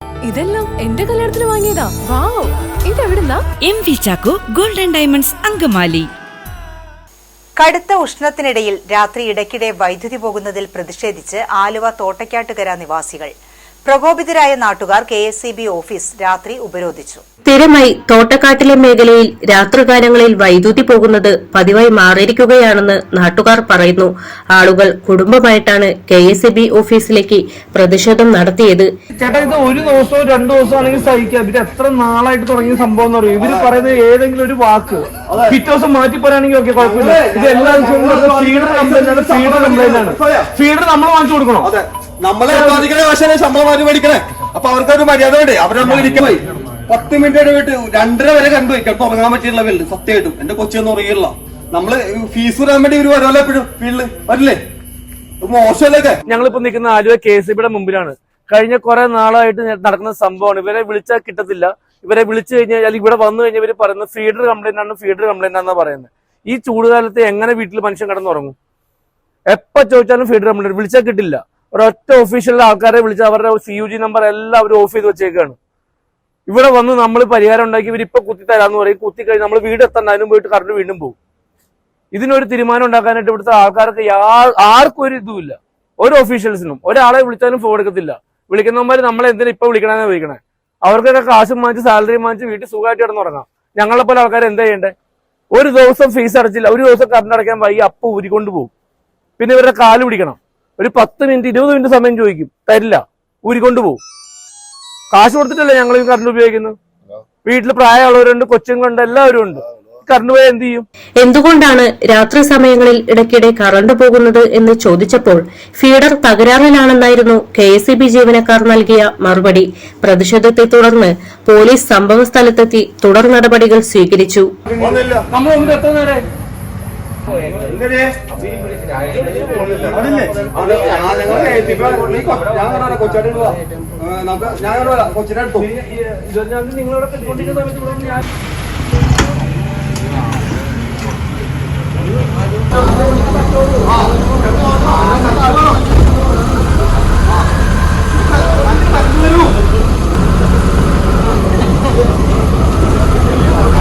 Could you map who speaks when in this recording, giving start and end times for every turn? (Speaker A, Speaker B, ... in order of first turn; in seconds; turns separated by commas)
Speaker A: 0.3-3.4, Speaker B: 3.7-6.1, Speaker C: 7.6-13.3, Speaker C: 13.8-17.2, Speaker D: 17.5-28.9, Speaker E: 29.1-41.7, Speaker F: 33.4-33.7, Speaker F: 35.3-35.6, Speaker F: 36.8-40.5, Speaker F: 41.6-54.6, Speaker E: 42.5-42.8, Speaker F: 55.4-56.2, Speaker E: 56.3-68.5, Speaker E: 69.5-75.6, Speaker E: 76.5-81.2, Speaker E: 82.1-94.9, Speaker E: 95.5-98.7, Speaker E: 99.4-104.0, Speaker E: 105.1-106.8, Speaker E: 107.4-110.9, Speaker D: 111.2-124.5, Speaker F: 124.8-125.2, Speaker E: 125.3-126.2, Speaker F: 127.7-128.1, Speaker E: 129.0-132.2, Speaker F: 129.8-135.7, Speaker E: 135.6-138.2, Speaker E: 142.9-143.8, Speaker F: 143.8-145.7, Speaker F: 148.2-149.6